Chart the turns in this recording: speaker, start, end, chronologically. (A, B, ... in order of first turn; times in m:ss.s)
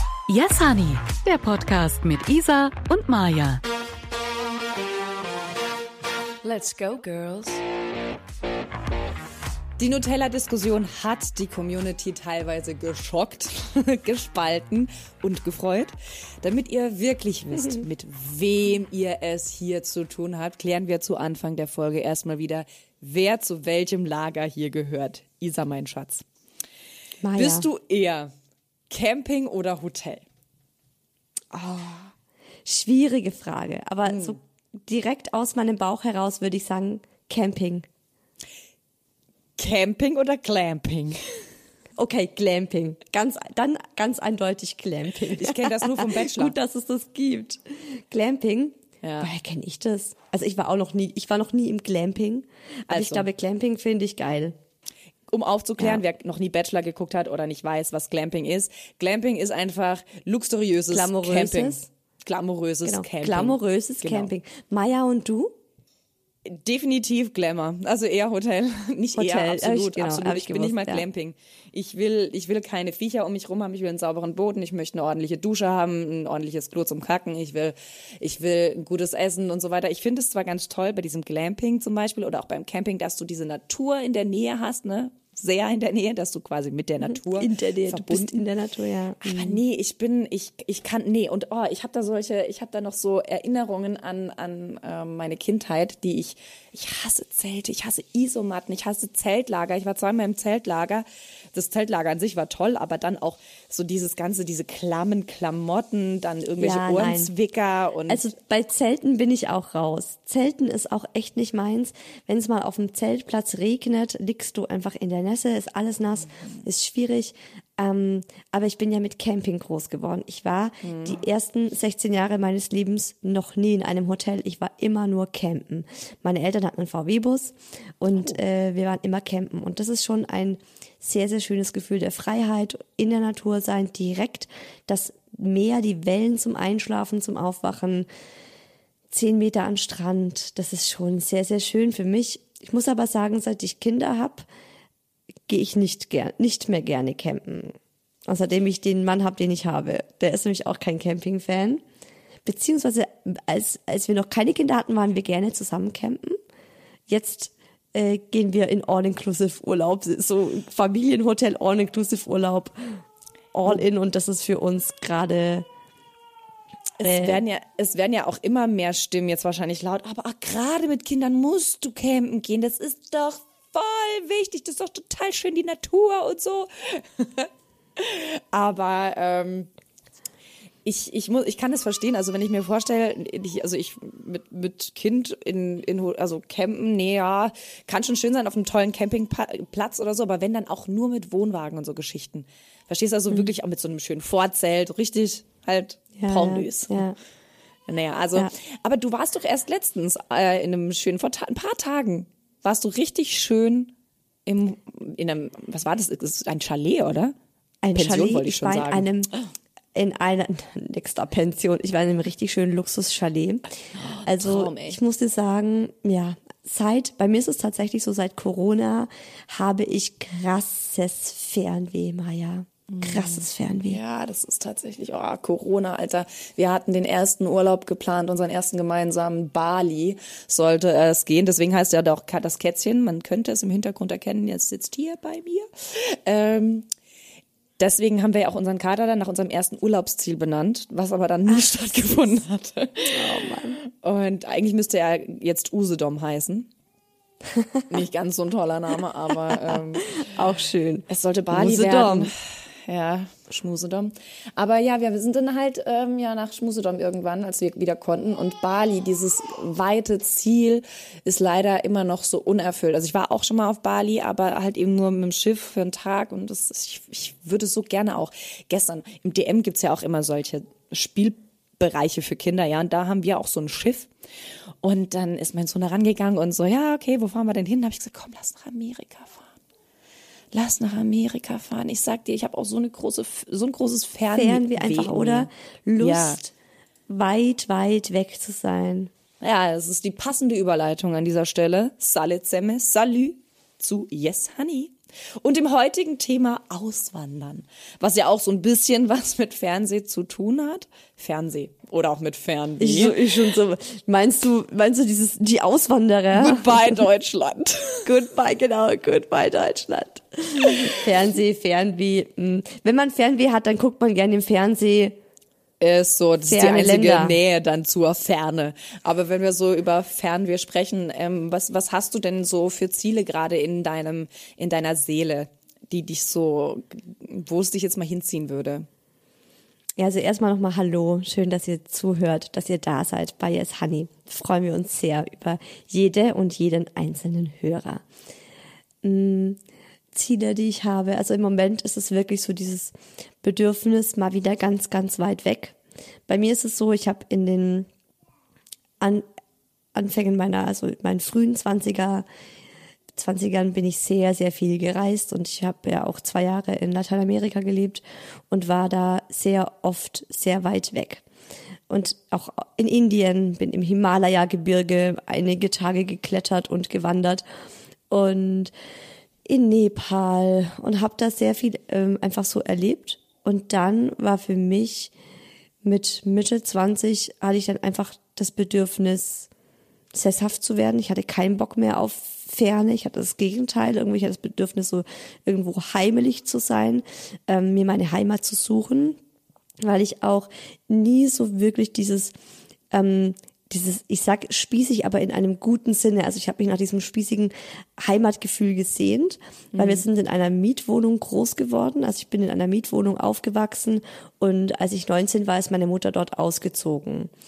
0:00.3-0:03.6 A
0:06.4-0:07.6 B
0:09.8-0:26.2 B
0:27.2-0:27.7 C
0:27.3-0:28.3 B
0:28.9-0:30.2 B
0:31.5-0:31.8 B
0:32.6-0:37.9 C
0:34.0-0:34.4 B
0:39.6-0:41.4 B
0:42.0-0:54.6 C
0:45.3-0:46.5 B
0:49.0-0:49.3 B
0:52.9-0:53.3 B
0:55.3-1:04.3 B
1:00.9-1:01.9 C
1:02.8-1:05.5 C
1:06.4-1:28.4 B
1:09.2-1:11.0 C
1:27.3-1:29.6 C
1:29.2-1:48.2 B
1:46.6-1:47.3 C
1:48.1-2:18.1 C
2:00.8-2:01.2 B
2:19.1-2:24.5 C
2:25.5-2:27.8 C
2:28.3-2:31.8 C
2:32.4-2:36.4 C
2:37.1-2:43.0 C
2:43.5-2:45.6 C
2:47.0-2:59.7 B
2:47.1-2:47.4 C
3:00.8-3:17.0 B
3:16.2-3:17.2 C
3:17.9-3:23.9 B
3:24.4-3:27.3 B
3:27.8-3:29.3 C
3:27.9-3:29.4 B
3:29.9-3:33.7 C
3:33.9-3:35.0 B
3:34.2-3:44.0 C
3:42.9-3:56.9 B
3:57.8-4:06.7 B
4:03.1-4:03.8 C
4:07.6-4:07.8 C
4:07.9-4:10.1 B
4:10.1-4:12.3 C
4:11.1-4:34.1 B
4:34.8-4:39.5 B
4:40.5-4:46.4 B
4:44.3-4:46.5 C
4:47.1-4:49.1 C
4:49.4-5:03.5 B
5:02.8-5:07.0 C
5:06.3-5:08.1 B
5:08.0-5:15.2 C
5:15.8-5:28.9 B
5:16.4-5:17.4 C
5:30.0-5:38.0 C
5:39.0-5:39.6 C
5:40.1-5:45.8 C
5:46.3-5:47.9 C
5:49.0-5:49.2 C
5:49.9-5:52.2 C
5:53.1-6:01.2 C
6:01.9-6:07.4 C
6:08.1-6:08.7 C
6:09.5-6:15.1 C
6:15.8-6:19.5 C
6:20.1-6:29.2 C
6:29.8-6:32.3 C
6:32.9-6:47.3 C
6:39.7-6:40.0 B